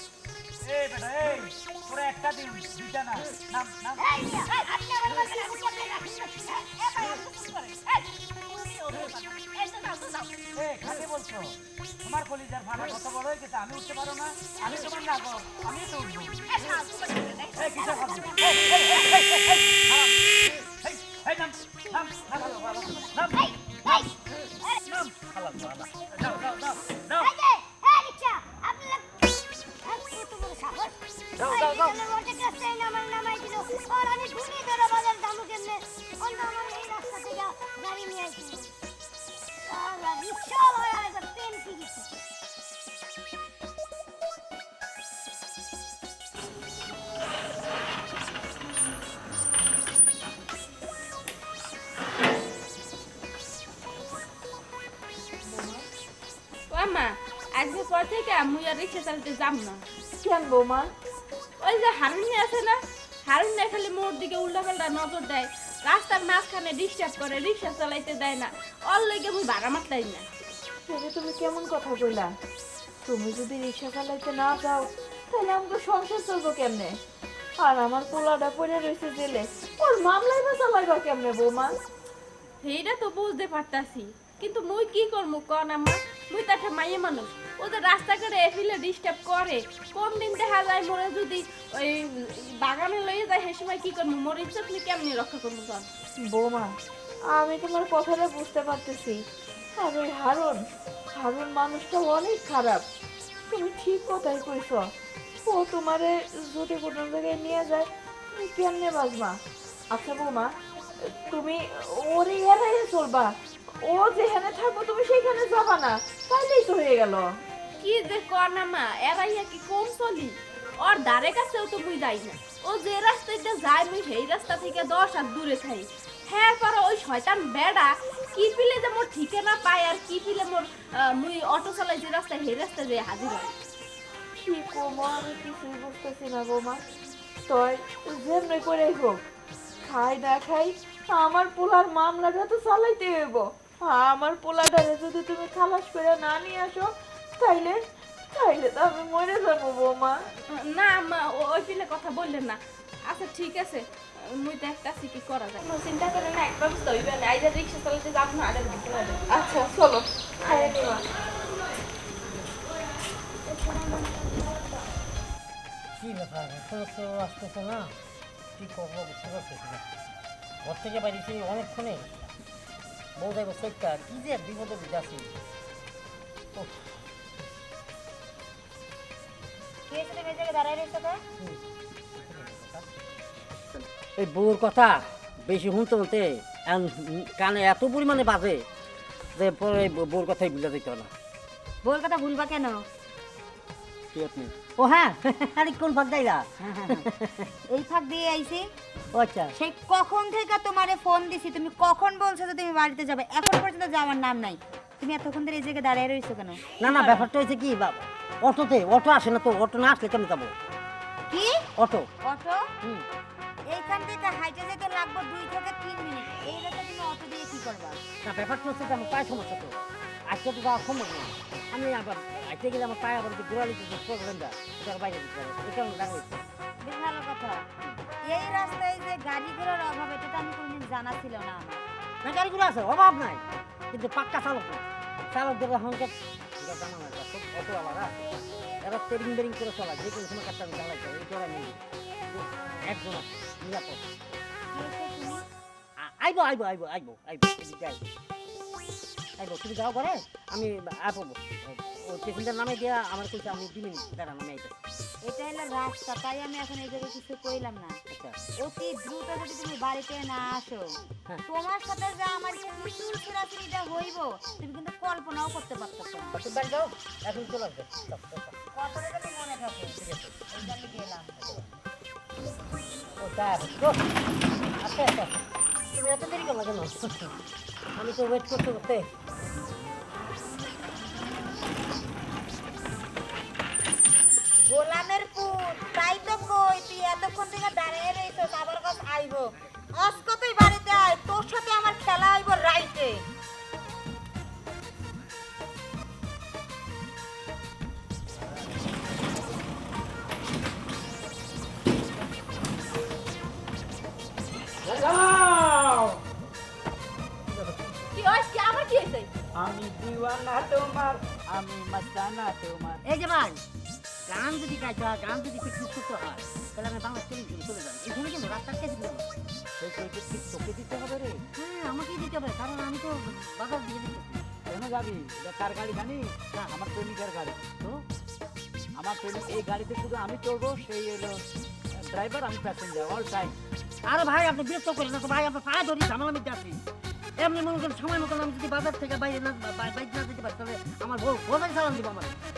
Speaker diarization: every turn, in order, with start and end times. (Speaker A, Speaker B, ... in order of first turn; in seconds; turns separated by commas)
Speaker A: 0.6-4.1, Speaker B: 4.0-4.5, Speaker C: 4.5-10.3, Speaker A: 10.6-16.4, Speaker C: 16.5-19.0, Speaker A: 17.6-24.1, Speaker B: 21.8-24.1, Speaker A: 24.9-27.3, Speaker B: 27.2-29.2, Speaker B: 29.8-38.7, Speaker A: 31.4-32.0, Speaker B: 39.6-42.1, Speaker D: 55.4-55.8, Speaker C: 56.7-59.8, Speaker D: 60.2-60.9, Speaker C: 61.6-70.3, Speaker D: 70.9-72.3, Speaker D: 73.0-76.9, Speaker D: 77.6-81.8, Speaker C: 82.6-95.9, Speaker D: 96.3-96.7, Speaker D: 97.3-99.2, Speaker D: 99.8-100.6, Speaker D: 101.2-102.8, Speaker D: 103.5-104.8, Speaker D: 105.4-109.3, Speaker D: 109.9-110.5, Speaker D: 111.3-113.3, Speaker D: 113.8-117.3, Speaker C: 117.8-133.5, Speaker D: 134.4-136.8, Speaker D: 137.5-139.2, Speaker D: 139.8-150.2, Speaker C: 150.5-159.4, Speaker D: 159.3-161.0, Speaker C: 160.4-160.8, Speaker E: 166.0-167.9, Speaker E: 168.6-169.8, Speaker E: 170.6-172.1, Speaker E: 173.2-175.3, Speaker E: 176.6-177.0, Speaker F: 179.9-181.2, Speaker E: 182.2-183.0, Speaker E: 184.0-188.6, Speaker E: 189.3-191.1, Speaker F: 191.8-192.8, Speaker E: 194.1-197.5, Speaker F: 196.7-197.0, Speaker F: 197.7-198.7, Speaker E: 199.1-199.5, Speaker F: 199.5-207.3, Speaker E: 206.8-210.5, Speaker F: 211.3-211.6, Speaker E: 211.8-212.1, Speaker F: 212.2-212.7, Speaker F: 213.7-218.0, Speaker E: 218.2-219.7, Speaker E: 220.3-226.4, Speaker F: 226.8-227.7, Speaker F: 228.3-231.8, Speaker E: 232.2-238.1, Speaker E: 238.8-244.0, Speaker F: 244.7-245.4, Speaker E: 246.0-248.1, Speaker E: 249.4-254.8, Speaker F: 255.2-258.0, Speaker E: 258.1-258.4, Speaker F: 258.6-266.4, Speaker E: 266.3-268.6, Speaker F: 268.7-271.6, Speaker E: 270.0-270.5, Speaker E: 273.2-274.1, Speaker E: 274.8-275.4, Speaker E: 275.9-277.3, Speaker E: 277.9-279.1, Speaker F: 284.6-293.2, Speaker A: 304.8-306.2, Speaker E: 307.5-308.0, Speaker C: 308.1-309.3, Speaker A: 309.5-313.0, Speaker E: 313.0-313.6, Speaker E: 314.3-319.3, Speaker A: 319.8-321.4, Speaker E: 321.5-324.4, Speaker A: 324.7-327.7, Speaker A: 328.9-331.4, Speaker A: 332.1-333.6, Speaker E: 334.1-336.8, Speaker E: 337.4-342.4